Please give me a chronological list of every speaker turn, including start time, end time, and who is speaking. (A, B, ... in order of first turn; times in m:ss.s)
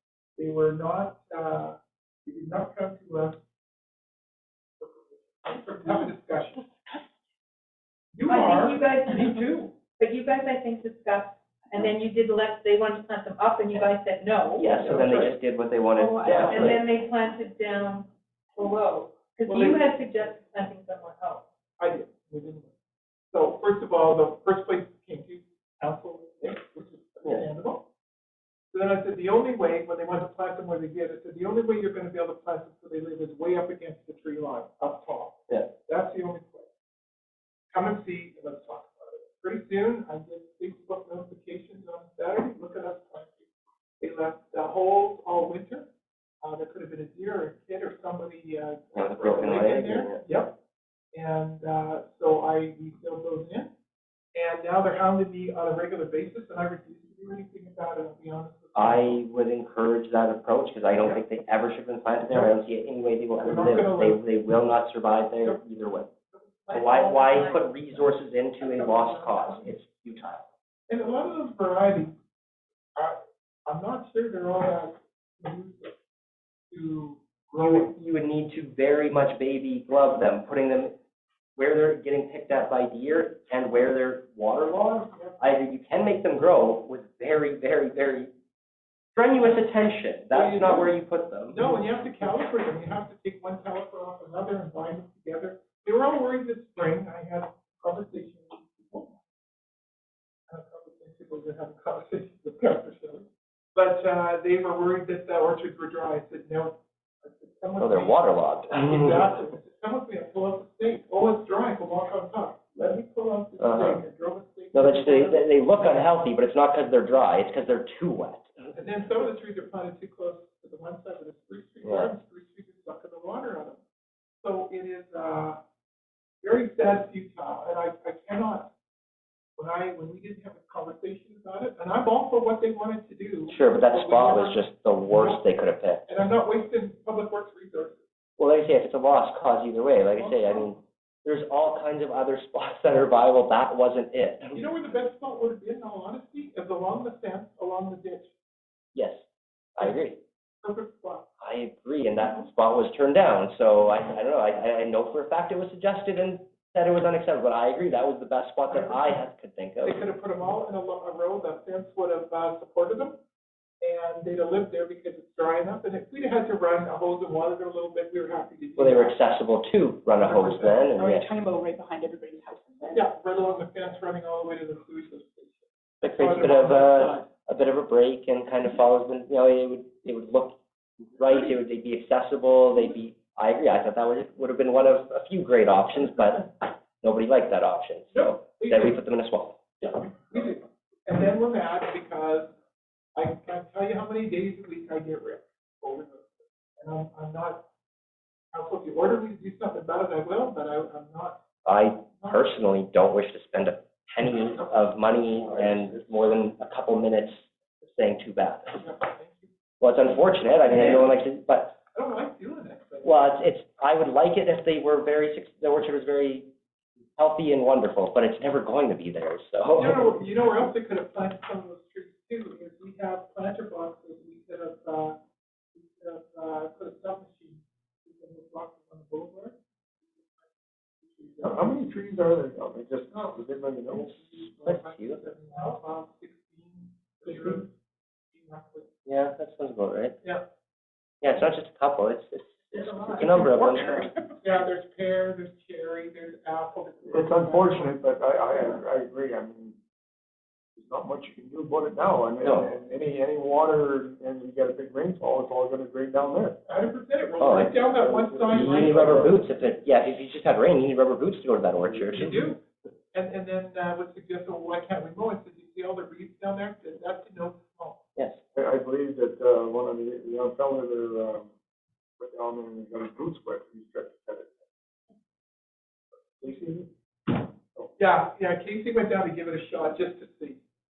0:00.4-0:03.4 A
0:04.8-0:06.6 A
0:08.1-0:09.7 A
0:08.2-0:15.3 B
0:14.6-0:16.8 C
0:15.9-0:21.4 B
0:16.3-0:16.6 A
0:19.5-0:19.8 A
0:21.8-0:22.7 A
0:23.3-0:27.8 A
0:28.7-0:36.7 A
0:37.7-0:43.4 A
0:44.0-0:45.9 A
0:46.4-0:50.5 A
0:48.9-0:50.3 C
0:51.1-0:53.7 A
0:54.3-0:59.2 A
0:58.7-1:06.1 C
1:00.9-1:01.2 A
1:02.3-1:02.5 A
1:03.4-1:04.2 A
1:06.3-1:06.8 A
1:06.7-1:10.5 C
1:06.7-1:07.6 B
1:08.6-1:09.4 B
1:10.9-1:12.1 A
1:13.0-1:16.0 A
1:16.7-1:17.9 A
1:17.6-1:20.9 C
1:21.5-1:28.3 C
1:29.1-1:31.6 C
1:30.3-1:39.1 A
1:40.5-1:56.2 A
1:47.8-1:49.3 C
1:53.6-1:54.0 C
1:54.7-1:58.7 C
1:58.7-2:03.8 A
2:01.8-2:02.1 C
2:04.4-2:05.6 A
2:06.4-2:08.7 A
2:09.6-2:15.4 A
2:13.5-2:16.1 C
2:16.0-2:18.0 A
2:18.4-2:24.6 C
2:20.1-2:20.8 A
2:24.5-2:28.3 A
2:28.9-2:29.2 C
2:29.8-2:30.2 C
2:30.6-2:31.3 A
2:31.4-2:40.1 C
2:32.2-2:32.5 A
2:38.7-2:39.2 A
2:39.8-2:43.2 A
2:43.8-2:49.2 A
2:48.8-2:51.3 C
2:50.1-2:50.9 A
2:50.9-2:53.0 D
2:52.9-2:55.6 A
2:56.0-3:00.6 C
2:56.2-2:57.2 A
3:01.2-3:09.9 C
3:01.2-3:01.6 A
3:05.9-3:06.5 A
3:08.1-3:09.0 A
3:09.8-3:12.5 A
3:13.1-3:17.6 A
3:18.5-3:21.4 A
3:21.6-3:28.8 C
3:22.2-3:22.5 A
3:25.4-3:26.2 E
3:28.7-3:29.5 A
3:29.8-3:31.8 C
3:30.7-3:31.2 A
3:31.9-3:33.3 A
3:33.0-3:36.5 C
3:37.2-3:40.1 C
3:39.7-3:45.2 A
3:45.7-3:49.6 A
3:51.0-3:51.8 A
3:51.4-3:54.2 E
3:53.9-3:57.7 A
3:54.4-3:55.2 C
3:57.2-3:57.6 E
3:58.3-3:58.9 A
3:59.0-4:00.2 C
4:01.2-4:04.1 C
4:04.4-4:07.9 A
4:07.1-4:09.8 E
4:10.8-4:16.6 E
4:12.4-4:12.7 C
4:16.7-4:19.3 A
4:17.4-4:17.7 C
4:17.6-4:19.4 E
4:18.5-4:22.4 C
4:22.1-4:22.6 A
4:23.1-4:28.0 A
4:28.5-4:31.5 E
4:32.2-4:34.7 E
4:36.2-4:36.9 E
4:38.0-4:40.6 A